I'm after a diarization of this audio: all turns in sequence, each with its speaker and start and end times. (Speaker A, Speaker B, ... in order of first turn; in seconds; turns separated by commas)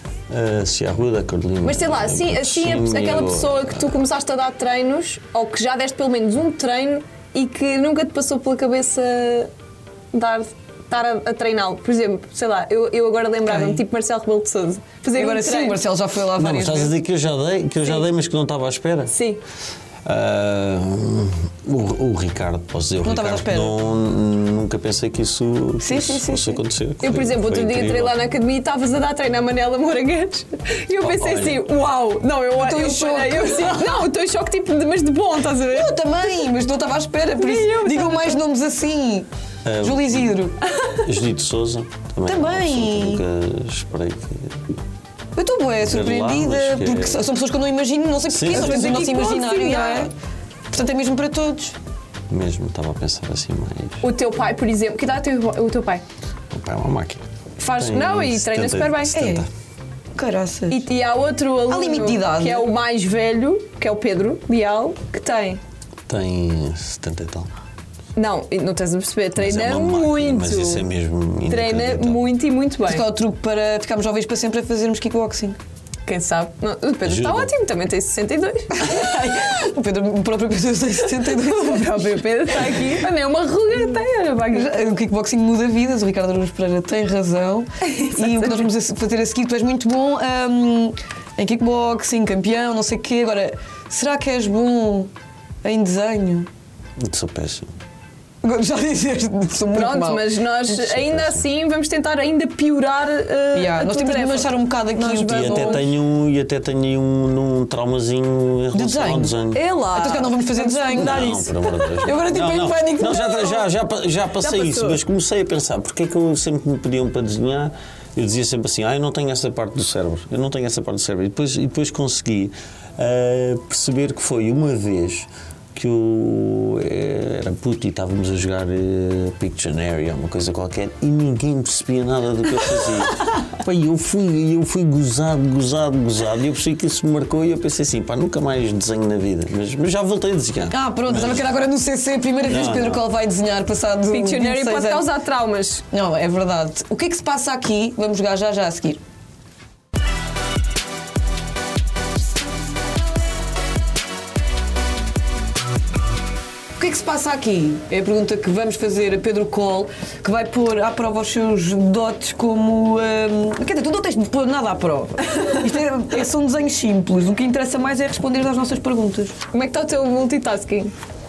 Speaker A: 0.3-3.9, Speaker B: 1.6-9.5, Speaker B: 10.1-15.8, Speaker C: 13.5-13.8, Speaker C: 15.2-16.9, Speaker A: 16.4-19.1, Speaker B: 19.1-19.4, Speaker A: 20.0-28.1, Speaker C: 23.0-23.7, Speaker C: 25.8-26.6, Speaker B: 27.0-36.0, Speaker A: 31.0-31.6, Speaker C: 32.5-34.0, Speaker C: 35.7-39.3, Speaker B: 37.4-38.4, Speaker A: 39.6-40.4, Speaker C: 39.8-40.6, Speaker A: 40.9-44.6, Speaker C: 42.2-43.2, Speaker C: 45.4-50.1, Speaker A: 45.8-47.2, Speaker A: 48.3-49.0, Speaker B: 48.5-50.1, Speaker C: 50.7-51.8, Speaker A: 52.3-54.0, Speaker B: 54.0-56.0, Speaker A: 56.5-57.2, Speaker B: 57.6-59.4, Speaker A: 57.8-59.5, Speaker C: 59.1-59.5, Speaker C: 60.1-60.9, Speaker B: 60.7-65.6, Speaker C: 61.7-62.7, Speaker A: 66.1-67.5, Speaker B: 68.2-70.8, Speaker A: 69.3-72.3, Speaker B: 71.5-73.0, Speaker C: 72.8-75.6, Speaker B: 76.0-79.3, Speaker A: 77.0-77.5, Speaker C: 78.8-82.8, Speaker B: 81.2-84.7, Speaker C: 84.5-95.1, Speaker B: 87.8-88.6, Speaker C: 95.6-96.5, Speaker A: 97.0-97.7, Speaker C: 98.4-100.4, Speaker B: 99.7-105.8, Speaker A: 100.9-101.4, Speaker C: 103.5-105.8, Speaker A: 105.2-109.6, Speaker C: 108.7-109.3, Speaker B: 109.5-112.0, Speaker C: 109.9-113.6, Speaker A: 110.9-141.5, Speaker B: 114.4-115.0, Speaker C: 140.7-145.1, Speaker A: 142.4-143.0, Speaker B: 144.1-145.8, Speaker C: 145.9-149.0, Speaker C: 156.8-169.3, Speaker B: 169.5-170.9